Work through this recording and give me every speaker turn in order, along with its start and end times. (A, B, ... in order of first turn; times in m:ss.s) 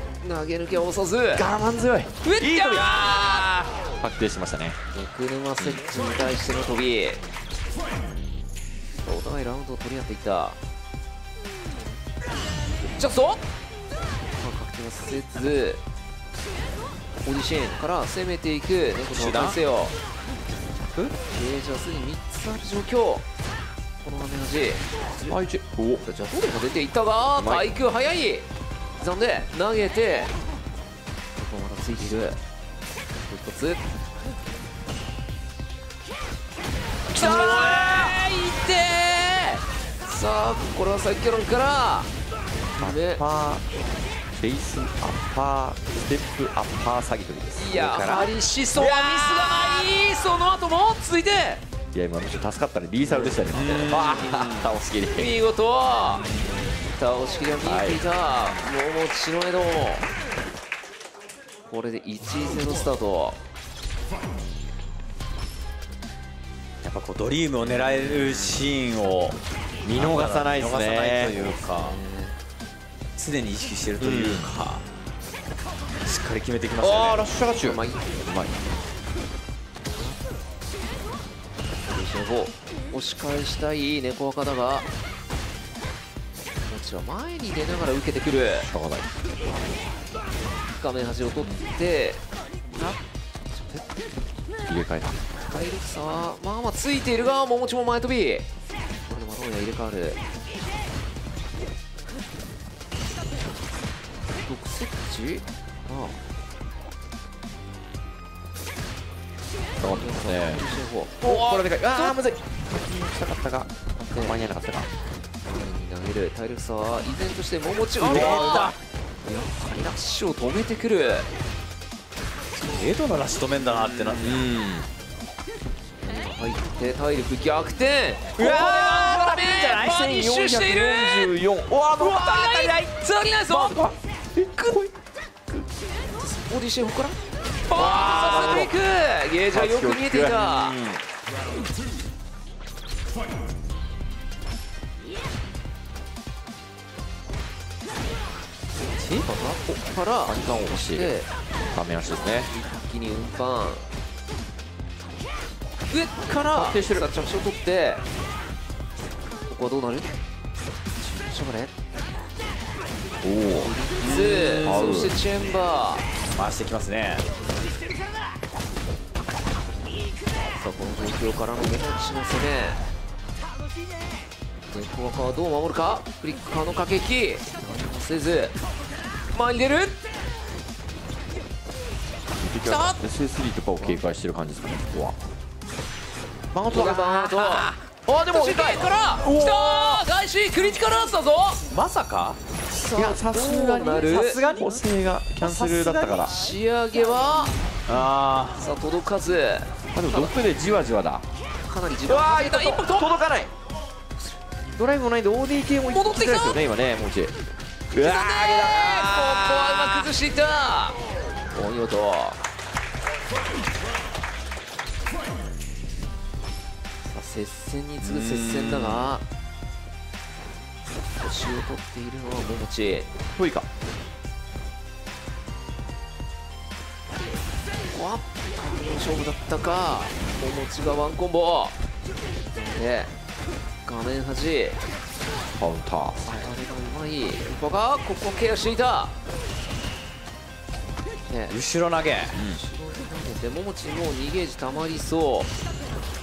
0:00.2-0:01.5 A
0:01.3-0:02.8 B
0:02.2-0:03.5 A
0:02.4-0:03.8 C
0:04.0-0:04.8 B
0:04.9-0:07.2 A
0:09.0-0:10.6 A
0:13.0-0:13.4 A
0:14.4-0:15.8 A
0:17.2-0:19.9 A
0:19.1-0:19.6 C
0:21.2-0:23.2 A
0:24.0-0:25.3 A
0:25.2-0:26.0 B
0:26.0-0:28.5 A
0:27.4-0:27.7 B
0:29.0-0:30.3 A
0:31.4-0:32.4 A
0:33.3-0:33.8 A
0:37.1-0:42.1 A
0:37.2-0:38.2 C
0:37.2-0:37.6 B
0:42.8-0:43.2 A
0:42.8-0:43.6 B
0:44.3-0:48.3 B
0:47.6-0:51.6 A
0:48.7-0:49.9 C
0:51.9-0:55.4 B
0:53.1-0:53.4 A
0:53.3-0:54.7 C
0:55.1-0:56.2 A
0:56.1-0:56.7 C
0:56.9-1:00.1 A
0:57.6-0:58.0 B
0:58.3-0:58.6 C
1:01.7-1:03.4 A
1:06.8-1:09.4 C
1:09.8-1:11.5 B
1:09.9-1:12.0 C
1:11.4-1:12.4 A
1:13.2-1:14.8 C
1:14.0-1:14.5 B
1:16.0-1:17.2 C
1:16.8-1:18.6 B
1:17.6-1:18.2 A
1:19.9-1:20.2 A
1:21.8-1:24.9 A
1:26.7-1:28.7 A
1:28.6-1:29.1 B
1:30.8-1:33.0 A
1:33.5-1:33.8 A
1:34.7-1:35.2 B
1:35.5-1:38.5 A
1:39.1-1:40.2 A
1:44.4-1:46.2 A
1:49.8-1:50.6 B
1:49.8-1:52.2 A
1:51.2-1:54.9 B
1:54.0-1:54.5 A
1:55.4-2:01.3 A
1:58.0-1:58.8 C
1:58.0-1:58.7 B
2:02.6-2:04.4 C
2:03.6-2:04.9 B
2:05.9-2:11.4 A
2:08.4-2:10.0 C
2:08.6-2:12.8 B
2:12.0-2:13.8 A
2:13.5-2:14.9 B
2:16.2-2:20.8 A
2:17.7-2:18.8 C
2:17.8-2:18.8 B
2:19.5-2:21.0 B
2:29.0-2:29.3 C
2:29.2-2:31.3 A
2:30.2-2:31.1 B
2:31.7-2:32.5 B
2:32.5-2:33.8 A
2:35.9-2:38.0 A
2:36.5-2:37.1 B
2:39.5-2:40.1 A
2:41.0-2:41.7 A
2:43.2-2:43.7 B
2:43.5-2:46.1 A
2:44.0-2:45.0 C
2:44.6-2:45.2 B
2:46.4-2:47.2 C
2:50.5-2:52.8 A
2:54.7-2:58.6 A
2:59.3-3:00.0 A
3:02.4-3:05.2 B
3:02.6-3:03.0 A
3:06.5-3:07.5 B
3:06.7-3:07.8 A
3:07.3-3:07.7 C
3:08.1-3:09.4 B
3:08.2-3:11.6 A
3:09.2-3:10.0 C
3:11.7-3:12.4 C
3:12.7-3:14.4 A
3:12.9-3:16.3 B
3:13.9-3:14.8 C
3:15.4-3:16.3 C
3:16.2-3:17.6 A
3:17.9-3:18.6 C
3:18.6-3:20.3 A
3:19.9-3:21.2 B
3:21.6-3:23.2 A
3:22.1-3:23.5 B
3:24.8-3:27.5 B
3:25.9-3:26.6 A
3:27.9-3:31.0 A
3:27.9-3:30.1 C
3:31.5-3:32.4 A
3:37.0-3:39.2 A
3:38.0-3:39.2 C
3:41.2-3:43.1 A
3:43.4-3:43.7 B
3:47.9-3:51.8 A
3:52.4-3:53.1 A
3:53.8-3:54.8 A
3:55.6-3:56.2 B
3:56.2-3:59.1 A
4:01.3-4:01.6 A
4:01.5-4:02.6 C
4:02.3-4:05.5 A